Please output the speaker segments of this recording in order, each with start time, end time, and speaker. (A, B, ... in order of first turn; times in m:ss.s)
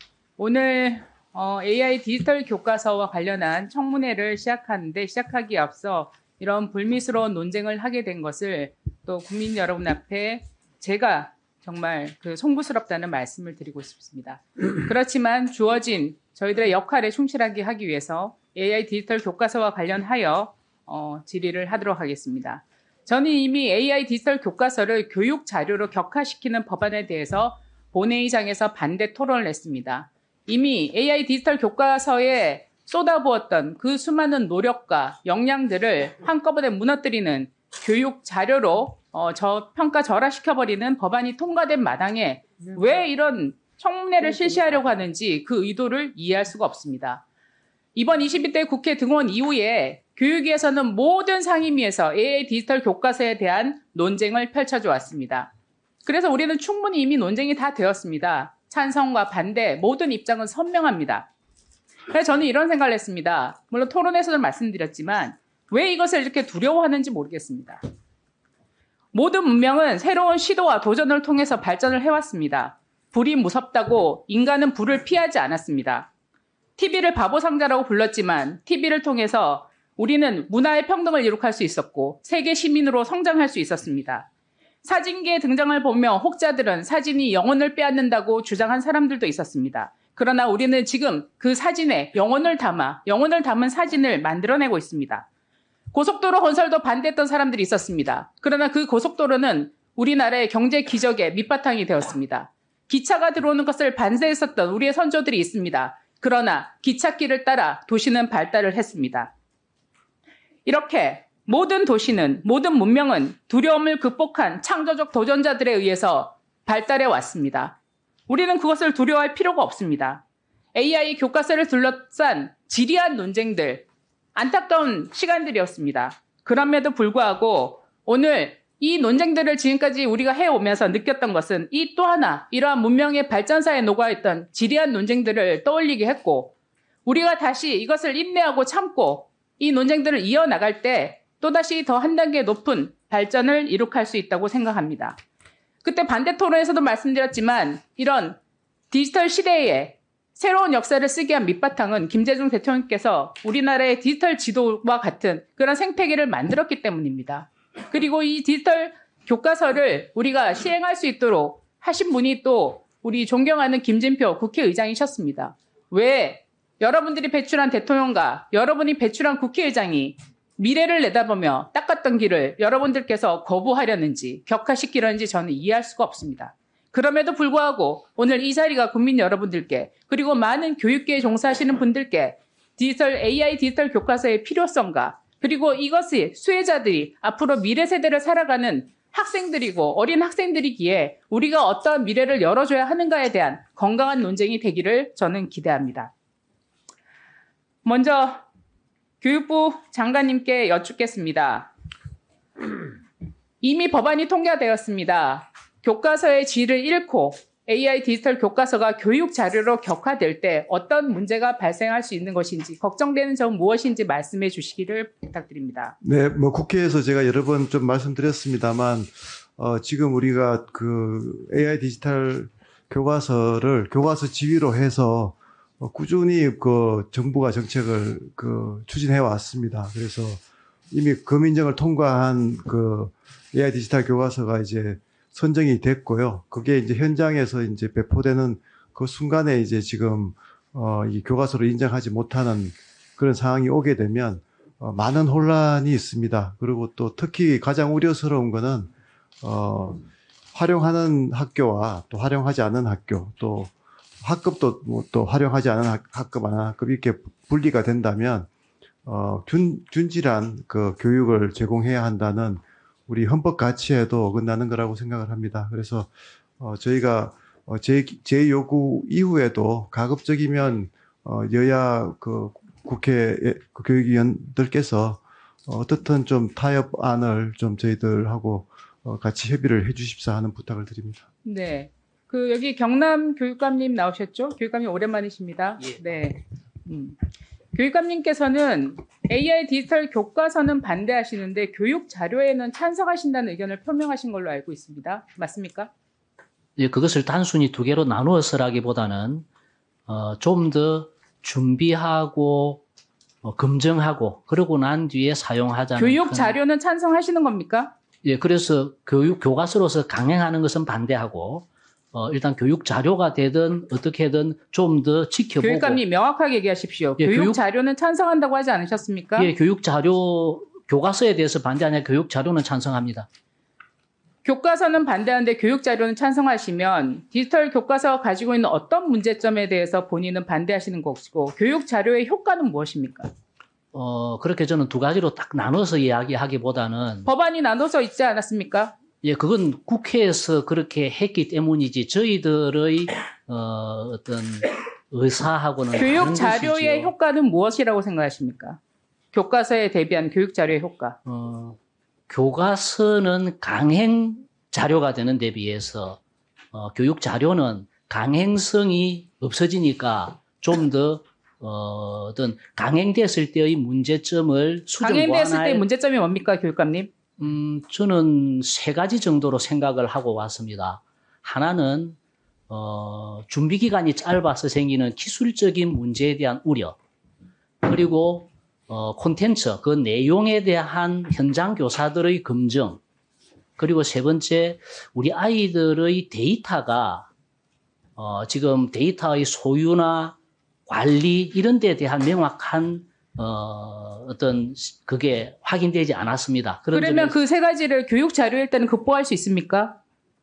0:00.4-0:47.2 A
0:48.0-0:55.5 A
0:56.0-1:01.3 A
1:02.1-1:07.8 A
1:09.1-1:16.1 A
1:16.8-1:24.3 A
1:24.8-1:35.3 A
1:35.9-1:49.3 A
1:50.7-1:57.8 A
1:58.3-2:00.2 A
2:00.7-2:16.5 A
2:17.0-2:25.2 A
2:25.8-2:28.4 A
2:28.9-3:16.1 A
3:17.8-3:18.4 A
3:19.2-3:21.7 A
3:23.6-3:36.0 A
3:36.0-4:18.5 B
4:19.0-4:41.2 B
4:41.4-4:47.2 A
4:47.7-4:55.9 A
4:56.8-4:59.4 C
5:00.1-5:02.8 C
5:03.4-5:06.6 C
5:06.0-5:07.9 A
5:08.2-5:16.0 C
5:15.6-5:19.5 A
5:17.2-5:17.6 C
5:19.4-5:23.3 C
5:24.4-5:33.3 A
5:33.9-5:37.3 C
5:37.2-5:38.9 A
5:39.2-5:47.1 C
5:45.9-5:48.8 A
5:49.3-5:51.2 A
5:51.2-5:51.8 C
5:52.3-5:56.2 C
5:56.7-6:05.8 C
6:05.0-6:07.1 A
6:07.4-6:12.2 C
6:12.7-6:17.0 C
6:17.8-6:23.0 C
6:23.8-6:27.3 C
6:28.2-6:37.4 C
6:36.9-6:40.0 A